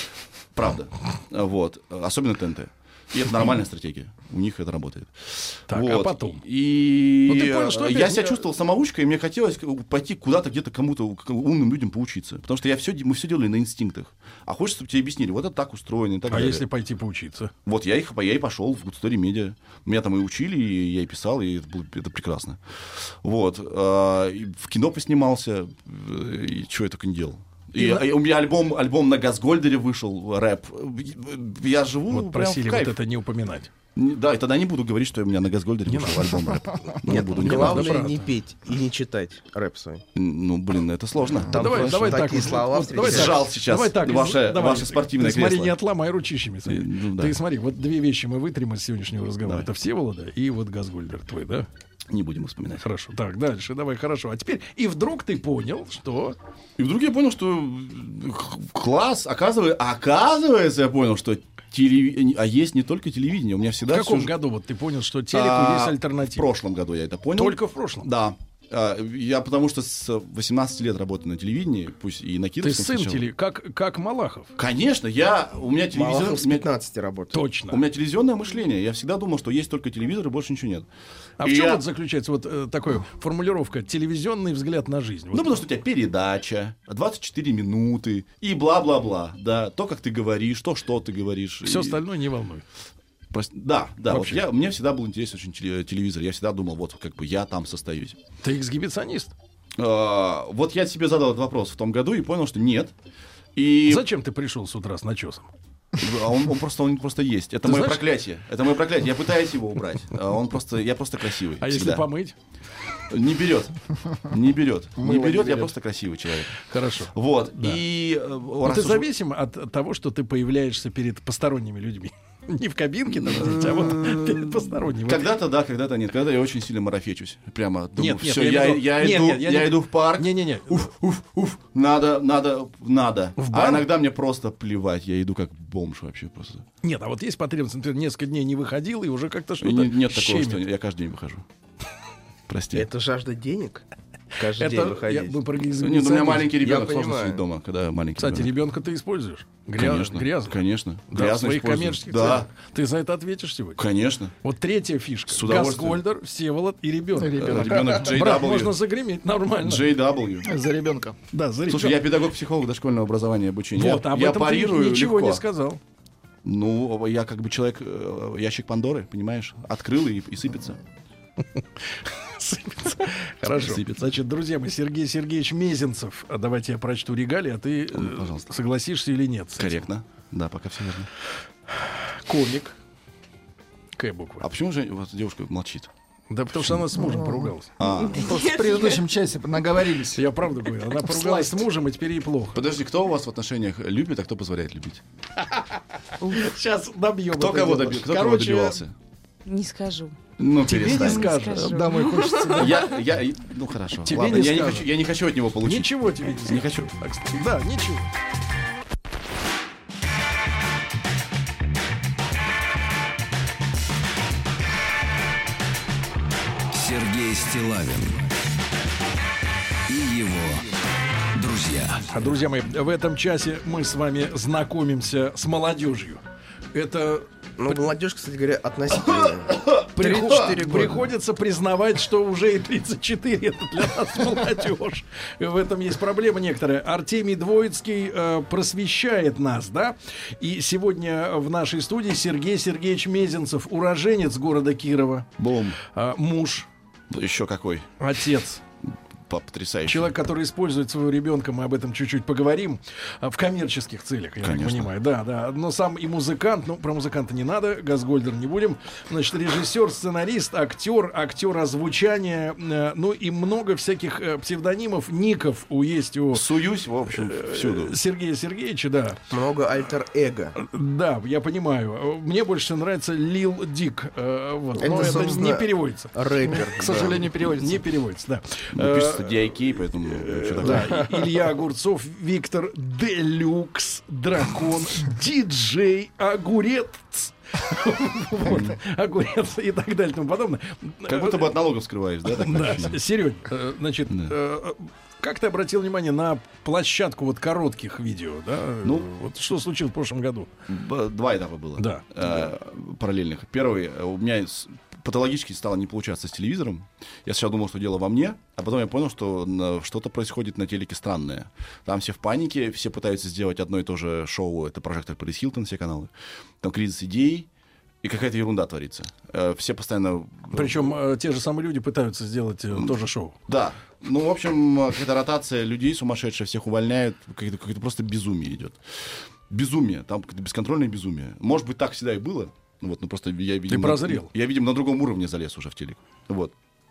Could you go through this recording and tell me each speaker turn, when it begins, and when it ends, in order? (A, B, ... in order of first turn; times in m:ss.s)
0:00.6-0:16.6 A
0:05.7-0:06.4 B
0:07.3-0:08.4 B
0:16.3-0:17.5 B
0:17.7-0:33.0 A
0:27.8-0:28.1 B
0:32.1-0:33.7 B
0:34.0-0:38.0 A
0:35.9-0:36.3 B
0:37.1-0:40.0 C
0:37.4-0:38.3 B
0:40.2-0:45.8 A
0:41.5-0:51.7 B
0:41.5-0:43.4 C
0:46.7-0:47.4 A
0:52.1-0:52.8 A
0:52.8-0:56.4 B
0:56.8-1:04.3 A
1:03.9-1:06.5 B
1:05.3-1:13.3 A
1:07.4-1:08.1 B
1:12.6-1:14.5 B
1:14.6-1:16.7 A
1:15.9-1:17.4 C
1:17.3-1:17.8 B
1:17.7-1:20.9 A
1:21.4-1:25.6 B
1:21.4-1:21.8 A
1:25.3-1:32.0 A
1:31.6-1:32.6 B
1:33.3-1:38.2 A
1:34.1-1:34.5 B
1:38.4-1:39.3 B
1:39.8-1:42.9 A
1:43.6-1:44.1 A
1:43.9-1:45.5 B
1:46.0-1:52.1 A
1:47.6-1:48.0 B
1:51.6-1:52.4 B
1:53.1-1:56.6 A
1:55.0-1:55.7 D
1:56.7-1:57.8 B
1:57.1-1:59.1 A
1:58.6-2:05.3 B
2:03.2-2:16.6 A
2:08.0-2:10.9 B
2:13.4-2:13.9 B
2:16.8-2:20.6 B
2:19.6-2:21.4 A
2:22.5-2:22.9 A
2:22.7-2:23.8 C
2:24.4-2:25.4 C
2:24.6-2:26.6 B
2:25.8-2:28.5 A
2:26.5-2:27.4 C
2:28.2-2:33.8 B
2:29.8-2:32.5 A
2:33.8-2:34.3 A
2:34.4-2:39.9 B
2:35.3-2:36.0 A
2:37.2-2:38.0 D
2:37.4-2:38.8 A
2:39.6-2:40.5 A
2:40.4-2:41.2 D
2:41.3-2:42.1 B
2:41.7-2:45.4 A
2:43.8-2:45.8 B
2:46.4-2:50.8 A
2:51.6-2:59.8 B
2:53.5-2:54.1 A
2:57.9-2:58.5 A
2:59.6-3:01.1 A
3:01.8-3:02.8 B
3:04.0-3:04.4 B
3:04.4-3:05.9 A
3:06.3-3:07.8 B
3:07.0-3:07.5 D
3:07.8-3:08.3 A
3:08.1-3:10.3 D
3:08.2-3:09.0 E
3:10.1-3:12.6 B
3:12.5-3:15.0 A
3:16.3-3:18.8 B
3:17.3-3:18.9 A
3:19.5-3:20.2 E
3:20.4-3:21.4 A
3:20.6-3:22.1 B
3:20.7-3:22.6 E
3:21.5-3:22.9 D
3:22.5-3:27.0 A
3:24.0-3:24.9 B
3:25.6-3:28.1 B
3:36.7-3:38.4 F
3:39.9-3:40.7 F
3:41.3-3:42.2 F
3:42.1-3:47.8 B
3:47.6-3:51.1 C
3:49.1-3:50.4 A
3:50.0-4:05.3 B
4:05.4-4:05.8 A
4:05.8-4:06.7 B
4:07.1-4:07.9 A
4:08.0-4:08.6 B
4:09.3-4:10.2 A
4:09.9-4:26.5 B
4:14.4-4:14.9 A
4:26.3-4:28.0 A
4:27.1-4:29.2 B
4:29.3-4:30.6 C
4:30.6-4:36.2 B
4:34.8-4:37.3 C
4:34.8-4:35.5 D
4:36.5-4:37.8 D
4:37.4-4:51.6 B
4:38.7-4:41.0 A
4:48.4-4:48.8 A
4:51.0-4:53.0 A
4:52.3-5:00.5 B
4:58.8-4:59.1 A
5:00.7-5:17.5 A
5:01.8-5:02.1 B
5:18.0-5:21.0 A
5:20.5-5:23.4 B
5:22.7-5:28.8 A
5:29.5-5:36.5 A
5:33.7-5:34.3 B